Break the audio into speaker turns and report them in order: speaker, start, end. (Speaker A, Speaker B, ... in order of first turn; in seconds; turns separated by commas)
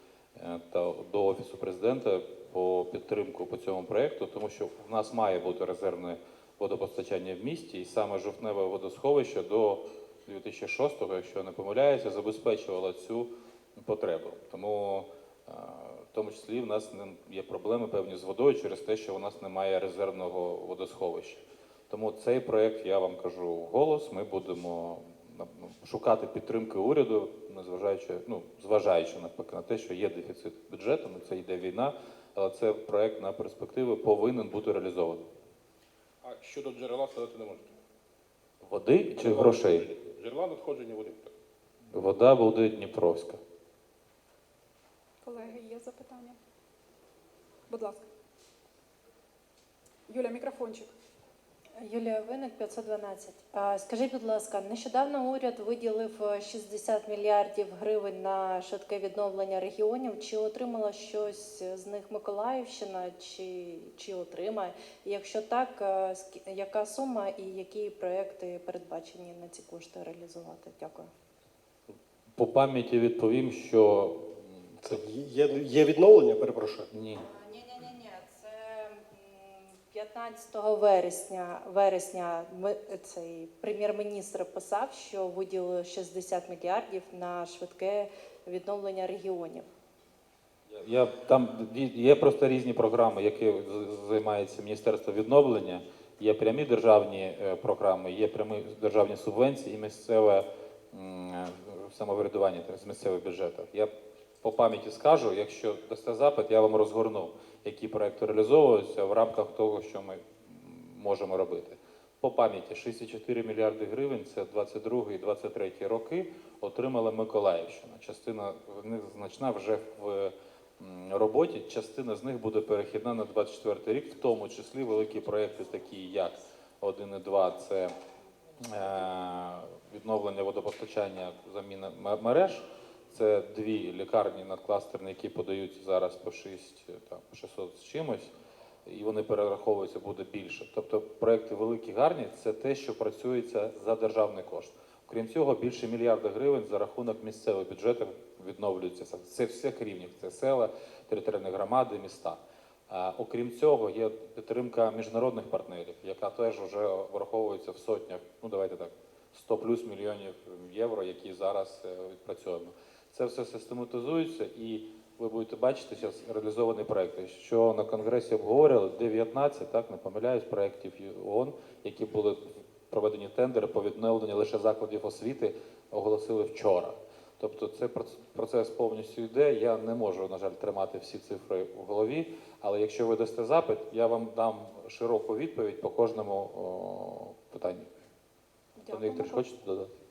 Speaker A: 0.4-35.3, Speaker B: 36.2-37.7, Speaker A: 38.6-39.9, Speaker B: 39.2-41.3, Speaker A: 41.9-43.4, Speaker C: 45.2-46.4, Speaker C: 47.7-48.0, Speaker C: 50.1-50.9, Speaker D: 51.8-71.1, Speaker A: 72.3-75.0, Speaker E: 74.8-76.9, Speaker A: 76.9-77.3, Speaker D: 77.3-89.7, Speaker A: 90.7-103.9, Speaker A: 104.4-127.9, Speaker A: 128.7-138.3, Speaker A: 138.9-187.9, Speaker C: 188.8-189.4, Speaker A: 188.9-189.9